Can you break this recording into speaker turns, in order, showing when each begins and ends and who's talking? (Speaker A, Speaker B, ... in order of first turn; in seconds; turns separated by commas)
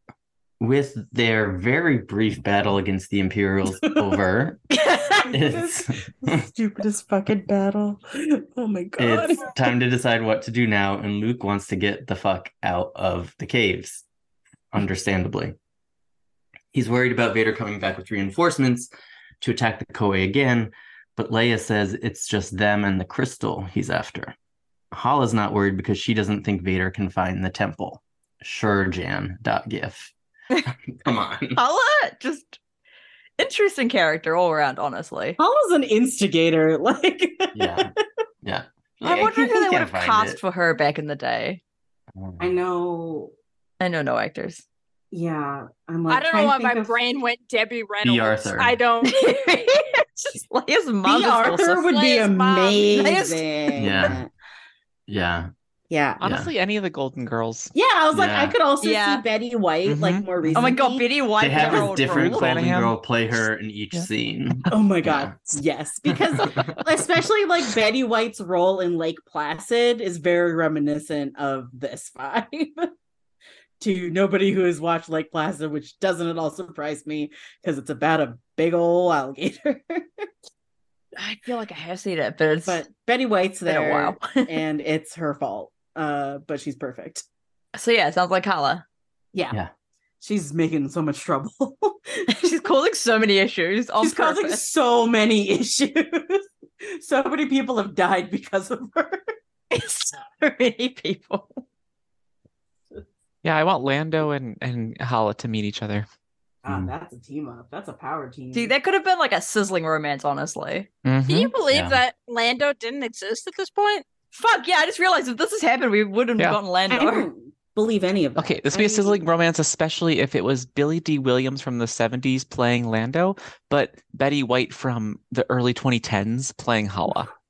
Speaker A: 0.6-4.7, Speaker B: 5.1-9.5, Speaker A: 5.3-6.4, Speaker A: 9.0-14.1, Speaker A: 14.7-15.6, Speaker A: 16.7-18.9, Speaker A: 19.4-24.4, Speaker A: 24.9-30.1, Speaker A: 30.9-31.6, Speaker C: 31.6-32.6, Speaker C: 33.4-35.4, Speaker B: 35.4-38.0, Speaker A: 37.5-37.9, Speaker A: 38.4-40.4, Speaker C: 39.0-41.6, Speaker A: 42.1-42.5, Speaker B: 42.4-43.3, Speaker C: 43.8-44.6, Speaker B: 45.1-47.0, Speaker D: 46.1-49.8, Speaker A: 48.0-48.8, Speaker C: 49.1-51.9, Speaker B: 51.0-54.3, Speaker D: 51.9-53.4, Speaker C: 53.0-53.4, Speaker A: 53.8-54.2, Speaker A: 55.1-55.5, Speaker B: 55.9-56.2, Speaker E: 56.2-57.7, Speaker A: 56.2-56.5, Speaker B: 57.7-61.8, Speaker A: 58.1-58.5, Speaker C: 58.8-59.2, Speaker E: 59.9-60.8, Speaker C: 60.5-62.5, Speaker A: 61.4-65.4, Speaker E: 61.6-63.0, Speaker B: 64.7-72.9, Speaker A: 66.5-66.8, Speaker B: 73.8-80.3, Speaker C: 81.2-82.8, Speaker B: 82.7-87.2, Speaker C: 83.7-84.6, Speaker C: 87.8-88.8, Speaker B: 90.2-92.5, Speaker C: 92.3-94.6, Speaker B: 94.0-99.3, Speaker C: 99.7-101.6, Speaker E: 103.4-106.1, Speaker B: 106.6-108.7, Speaker C: 108.5-110.9, Speaker E: 111.0-111.5, Speaker D: 111.3-114.0, Speaker A: 111.7-112.0, Speaker C: 114.3-117.3, Speaker B: 116.9-119.2, Speaker E: 118.4-127.3